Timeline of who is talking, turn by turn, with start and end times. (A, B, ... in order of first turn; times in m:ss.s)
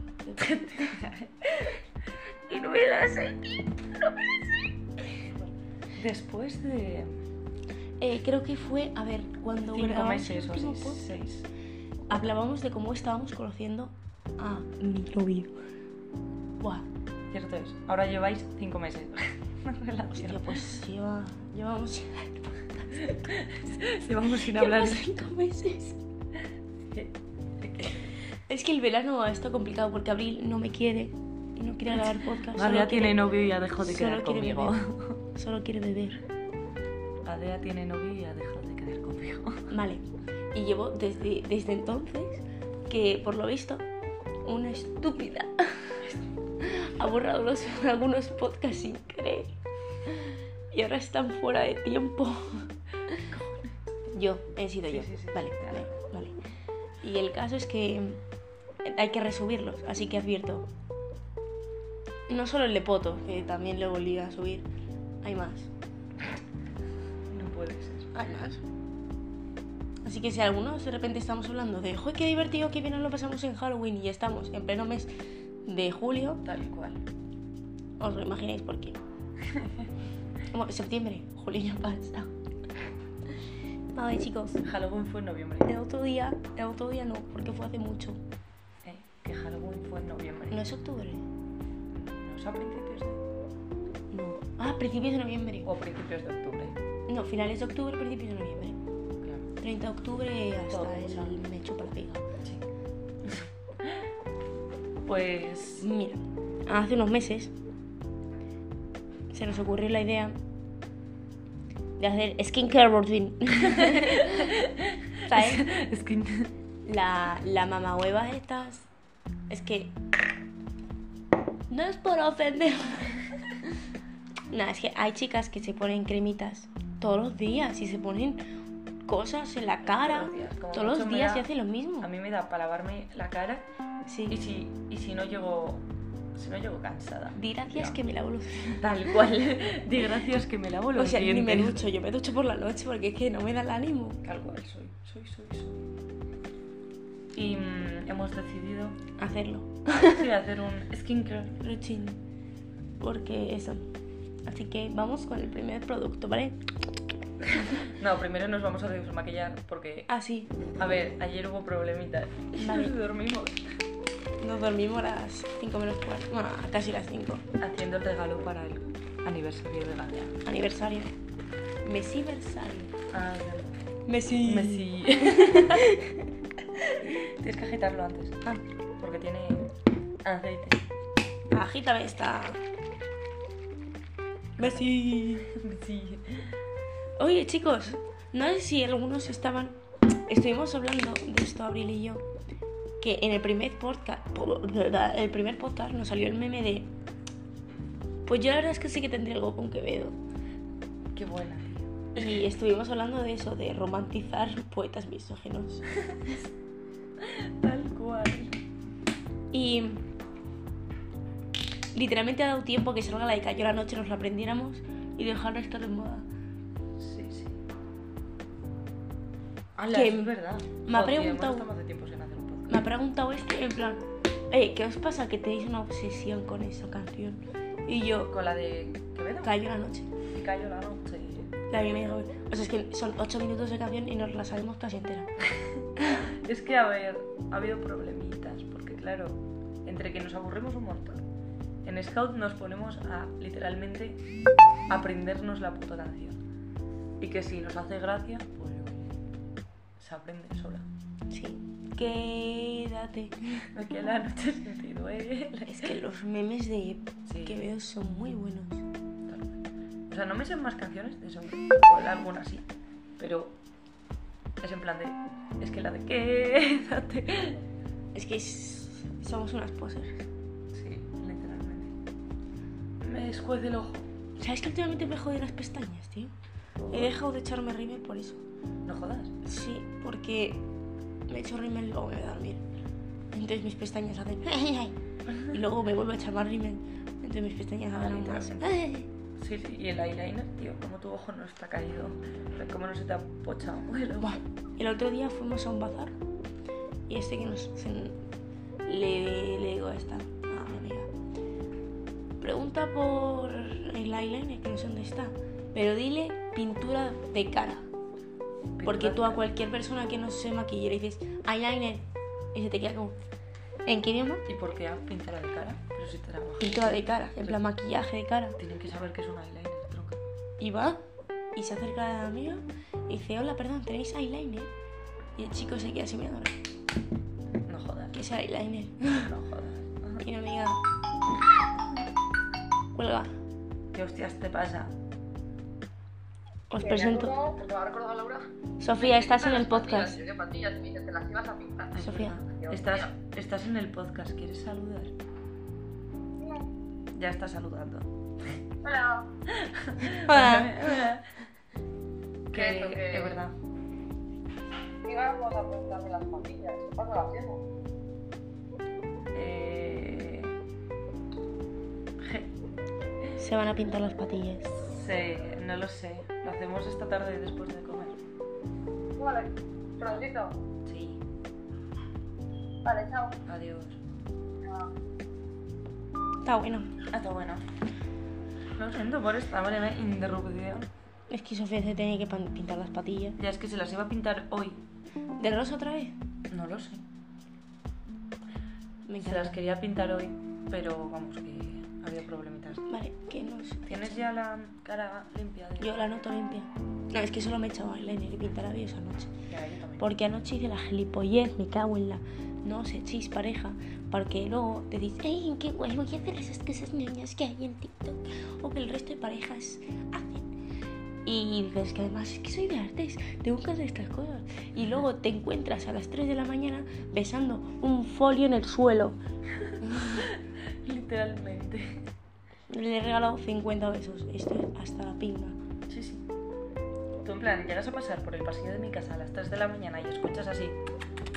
0:00.2-0:00.9 A
0:00.4-0:01.8 B
0:02.5-0:05.2 A
0:06.0-0:07.2 B
0:08.0-0:11.1 A
0:09.7-0:11.5 B
0:12.1-0:15.5 A
0:16.6-0:16.9 A
0:17.3-0:20.7 B
0:20.1-0:23.4 A
0:23.0-0:25.2 B
0:24.3-0:26.0 A
0:26.9-0:28.1 B
0:28.5-0:33.3 A
0:31.9-0:35.2 B
0:33.8-0:34.8 A
0:35.3-0:36.2 A
0:37.2-0:39.7 B
0:39.7-0:43.8 A
0:44.4-0:46.0 A
0:46.6-0:49.5 A
0:50.7-0:53.2 A
0:53.3-0:53.8 B
0:54.1-0:56.3 A
0:54.9-0:55.9 B
0:57.0-0:58.2 A
0:58.8-1:00.7 A
1:02.3-1:04.7 A
1:05.2-1:05.7 A
1:07.3-1:08.1 B
1:08.1-1:08.6 A
1:10.0-1:15.1 A
1:15.7-1:16.4 A
1:16.4-1:17.0 B
1:18.0-1:19.0 A
1:19.5-1:19.9 B
1:20.5-1:22.3 A
1:23.9-1:24.6 A
1:24.6-1:25.7 B
1:25.6-1:28.2 A
1:28.8-1:30.6 B
1:30.5-1:31.2 A
1:31.9-1:33.2 B
1:34.1-1:35.7 A
1:35.6-1:36.8 B
1:37.1-1:38.8 A
1:39.2-1:39.5 B
1:39.6-1:42.2 A
1:40.7-1:41.4 B
1:43.2-1:44.0 B
1:45.0-1:45.9 B
1:45.8-1:47.5 A
1:49.3-1:50.4 A
1:52.0-1:54.6 A
1:53.6-1:56.5 B
1:55.3-1:55.7 A
1:56.8-1:58.9 A
1:59.5-1:59.9 A
2:01.7-2:03.3 A
2:04.5-2:08.4 A
2:09.1-2:12.1 A
2:09.8-2:11.5 B
2:12.0-2:13.7 B
2:14.1-2:14.4 A
2:14.3-2:18.1 B
2:17.4-2:18.8 A
2:18.6-2:21.9 B
2:21.0-2:24.2 A
2:24.2-2:25.8 B
2:27.3-2:29.0 B
2:29.2-2:30.2 A
2:30.0-2:31.6 B
2:31.6-2:32.2 A
2:33.0-2:33.9 A
2:34.5-2:36.6 A
2:37.6-2:40.1 B
2:40.1-2:40.6 A
2:40.8-2:43.6 B
2:42.6-2:43.0 A
2:44.4-2:47.4 A
2:47.6-2:50.4 B
2:50.4-2:51.1 A
2:51.8-2:53.0 A
2:53.1-2:53.8 B
2:54.1-2:56.3 A
2:54.4-2:56.0 B
2:57.1-2:58.4 B
2:59.0-2:59.7 B
3:00.2-3:00.8 B
3:01.5-3:02.6 A
3:04.6-3:06.6 B
3:04.6-3:05.5 A
3:07.2-3:12.2 A
3:13.0-3:16.9 A
3:18.3-3:20.2 A
3:21.1-3:22.3 B
3:22.2-3:25.9 A
3:27.2-3:28.6 B
3:29.5-3:30.0 A
3:31.9-3:36.3 A
3:37.0-3:37.6 B
3:39.8-3:42.8 B
3:39.9-3:41.7 A
3:42.7-3:48.3 A
3:48.3-3:49.6 B
3:49.4-3:50.1 A
3:50.3-3:51.6 B
3:51.7-3:55.3 A
3:56.2-4:01.2 B
4:01.8-4:04.2 B
4:04.9-4:06.4 B
4:07.2-4:09.1 B
4:10.0-4:10.9 B
4:11.3-4:13.7 A
4:13.7-4:16.0 B
4:15.7-4:18.8 A
4:17.3-4:17.6 B
4:19.3-4:22.7 B
4:23.2-4:23.6 B
4:24.6-4:27.6 B
4:28.2-4:30.3 A
4:30.7-4:31.9 B
4:33.0-4:34.1 B
4:34.4-4:36.3 A
4:36.8-4:37.1 B
4:36.9-4:38.4 A
4:38.9-4:39.3 B
4:39.4-4:40.6 A
4:41.3-4:42.6 A
4:43.3-4:49.1 A
4:47.9-4:48.7 B
4:49.4-4:54.4 B
4:54.2-4:56.2 A
4:57.1-4:58.2 A
4:58.9-5:01.1 A
5:02.4-5:07.9 A
5:08.8-5:09.4 B
5:08.8-5:12.0 A
5:12.5-5:13.2 A
5:13.9-5:14.4 A
5:14.5-5:17.6 B
5:16.6-5:18.6 A
5:18.6-5:20.2 B
5:20.6-5:21.0 A
5:21.6-5:24.7 A
5:25.4-5:26.6 A
5:27.7-5:28.2 B
5:28.1-5:29.3 A
5:29.1-5:30.2 B
5:30.2-5:30.8 A
5:32.9-5:33.3 A
5:33.9-5:35.0 B
5:36.7-5:37.4 A
5:36.8-5:38.5 C
5:38.8-5:40.2 A
5:39.0-5:43.1 C
5:41.9-5:45.1 B
5:42.0-5:42.4 A
5:46.4-5:46.7 C
5:47.1-5:48.1 B
5:48.8-5:49.3 C
5:49.5-5:51.3 B
5:50.1-5:51.0 A
5:52.5-5:53.6 B
5:52.5-5:53.4 C
5:55.0-5:57.6 C
5:59.3-6:00.6 B
6:02.2-6:02.5 B
6:03.4-6:04.8 A
6:04.9-6:08.2 B
6:09.2-6:10.6 C
6:10.8-6:11.2 B
6:12.8-6:13.4 C
6:13.5-6:14.0 B
6:16.4-6:16.9 A
6:17.1-6:17.6 B
6:18.8-6:20.9 B
6:21.3-6:23.4 A
6:23.4-6:24.8 B
6:25.4-6:26.2 A
6:26.5-6:27.0 B
6:29.1-6:29.6 A
6:29.2-6:32.8 B
6:32.9-6:34.2 A
6:33.9-6:36.3 B
6:35.8-6:39.3 A
6:39.5-6:40.1 B
6:40.0-6:50.5 A
6:51.3-6:59.2 A
6:54.8-6:55.0 B
6:59.6-7:02.0 B
6:59.8-7:00.3 A
7:02.7-7:05.6 A
7:05.9-7:06.2 B
7:07.2-7:10.8 B